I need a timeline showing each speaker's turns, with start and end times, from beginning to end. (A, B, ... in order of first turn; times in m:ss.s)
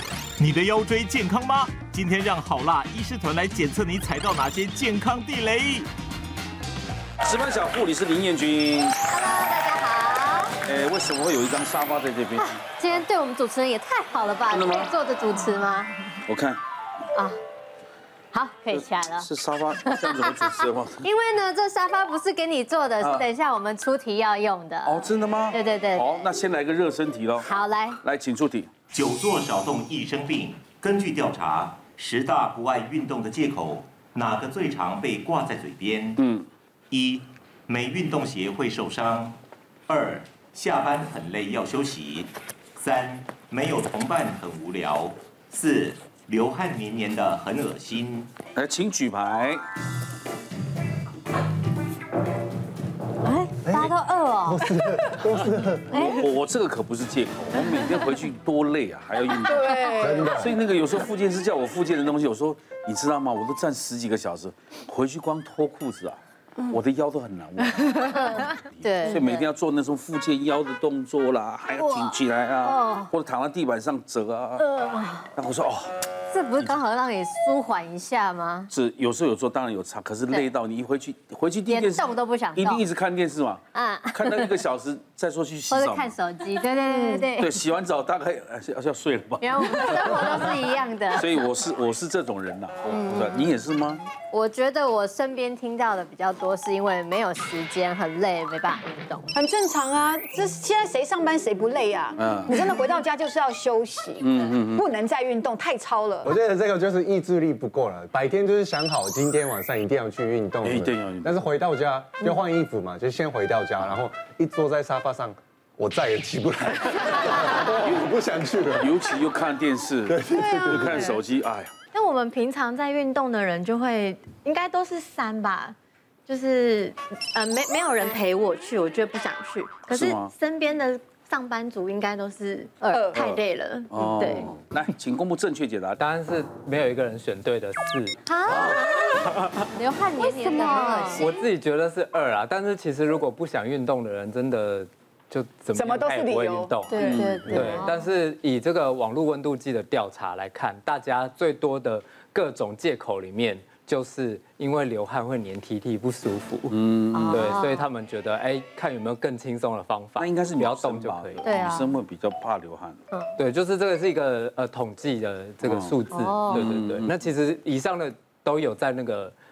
0:00.4-0:05.9 A
0:07.2-0:09.0 B
0:09.1-0:10.5 C
0:10.6-0:12.6 B
0:12.4-0:15.9 C
0:14.5-0:14.9 B
0:16.3-0:16.6 B
0:18.3-0:26.2 C
0:18.7-0:21.1 B
0:23.0-0:23.3 B
0:24.8-0:28.7 B
0:27.4-0:28.0 C
0:28.9-0:36.2 A
0:36.2-0:36.5 B
0:36.9-0:39.4 A
0:39.9-0:48.3 A
0:48.6-0:49.6 B
0:53.3-0:53.7 D
0:53.6-0:56.2 E
0:53.7-0:54.6 C
0:55.9-0:56.2 C
0:56.2-1:14.7 B
0:59.5-1:00.4 F
1:00.0-1:00.6 E
1:07.8-1:08.6 D
1:08.0-1:09.4 C
1:11.7-1:13.1 C
1:14.6-1:15.3 C
1:15.4-1:15.9 B
1:16.3-1:18.7 C
1:18.7-1:26.2 B
1:21.7-1:22.8 C
1:23.7-1:24.7 C
1:25.7-1:27.6 C
1:26.9-1:27.3 F
1:27.3-1:34.0 B
1:29.4-1:31.5 C
1:32.8-1:33.6 C
1:34.1-1:39.2 C
1:39.3-1:46.3 F
1:42.2-1:42.8 B
1:44.2-1:44.9 B
1:46.2-1:59.0 E
1:50.6-1:51.4 B
1:58.8-2:01.7 B
2:00.0-2:01.1 E
2:00.3-2:01.2 F
2:01.9-2:05.7 D
2:06.3-2:14.5 D
2:09.9-2:10.3 B
2:13.1-2:16.0 B
2:16.0-2:18.8 G
2:18.2-2:21.3 D
2:18.5-2:18.8 B
2:20.2-2:21.3 C
2:21.2-2:36.8 G
2:25.7-2:27.1 F
2:26.9-2:27.9 D
2:27.0-2:27.6 B
2:27.6-2:27.9 C
2:36.7-2:37.6 B
2:37.1-2:37.8 C
2:37.3-2:41.6 G
2:40.2-2:43.0 B
2:41.4-2:42.0 C
2:43.4-2:49.3 G
2:45.6-2:46.0 B
2:46.1-2:46.7 C
2:46.5-2:47.1 B